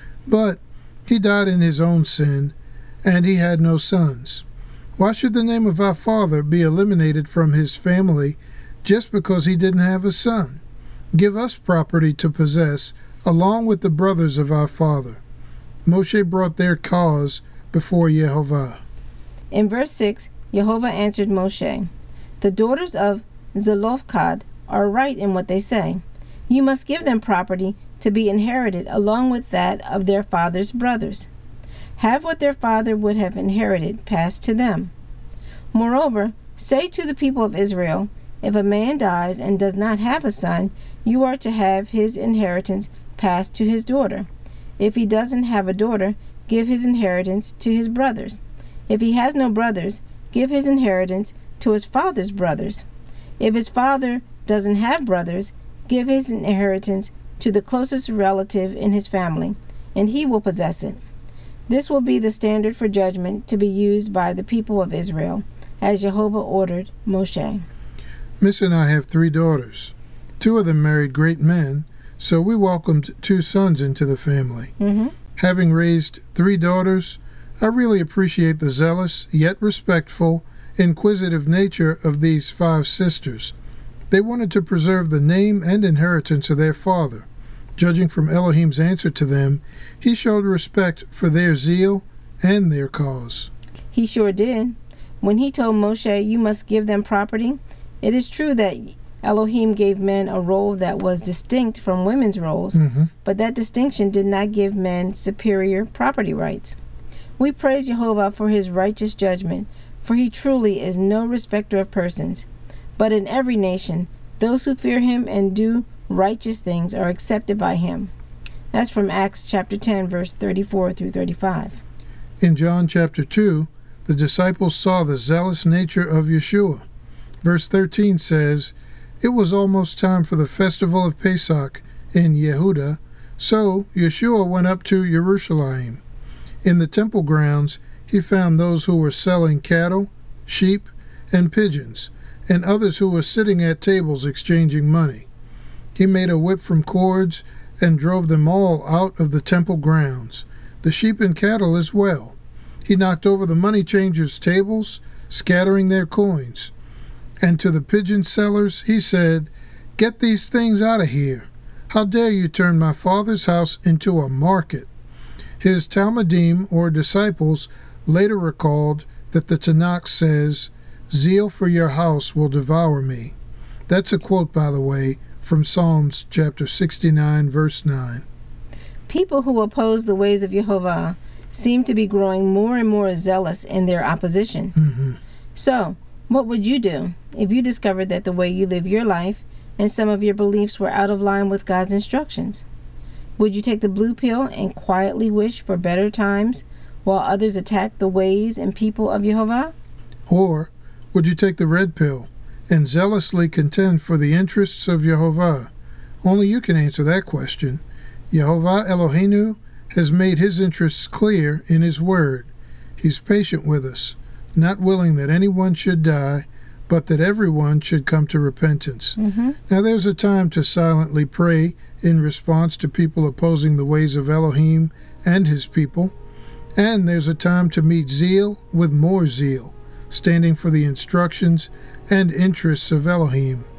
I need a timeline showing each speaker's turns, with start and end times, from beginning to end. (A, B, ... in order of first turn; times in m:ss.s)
0:00.3-0:04.4 A
0:05.0-0:10.6 A
0:11.1-0:15.2 A
0:15.8-0:18.8 A
0:19.5-0:21.9 B
0:22.4-0:31.3 B
0:32.0-0:34.9 B
0:35.7-0:44.3 B
0:44.8-0:52.8 B
0:53.4-1:01.0 B
1:01.7-1:07.6 B
1:08.4-1:14.7 A
1:14.8-1:15.2 B
1:15.4-1:23.6 A
1:24.1-1:33.5 A
1:33.9-1:46.8 B
1:42.8-1:43.1 A
1:47.4-1:52.5 B
1:53.0-1:58.1 B
1:58.7-2:01.8 B
2:02.4-2:06.8 A
2:07.4-2:16.0 A
2:16.6-2:25.3 A
2:26.0-2:36.7 A
2:37.4-2:44.9 A
2:45.6-2:53.4 A
2:53.9-2:58.2 A
2:59.1-3:04.8 B
3:04.8-3:05.2 A
3:05.6-3:12.6 B
3:13.4-3:19.7 B
3:20.3-3:25.7 A
3:26.2-3:39.2 A
3:39.2-3:39.6 B
3:39.7-3:46.2 A
3:46.8-3:53.7 A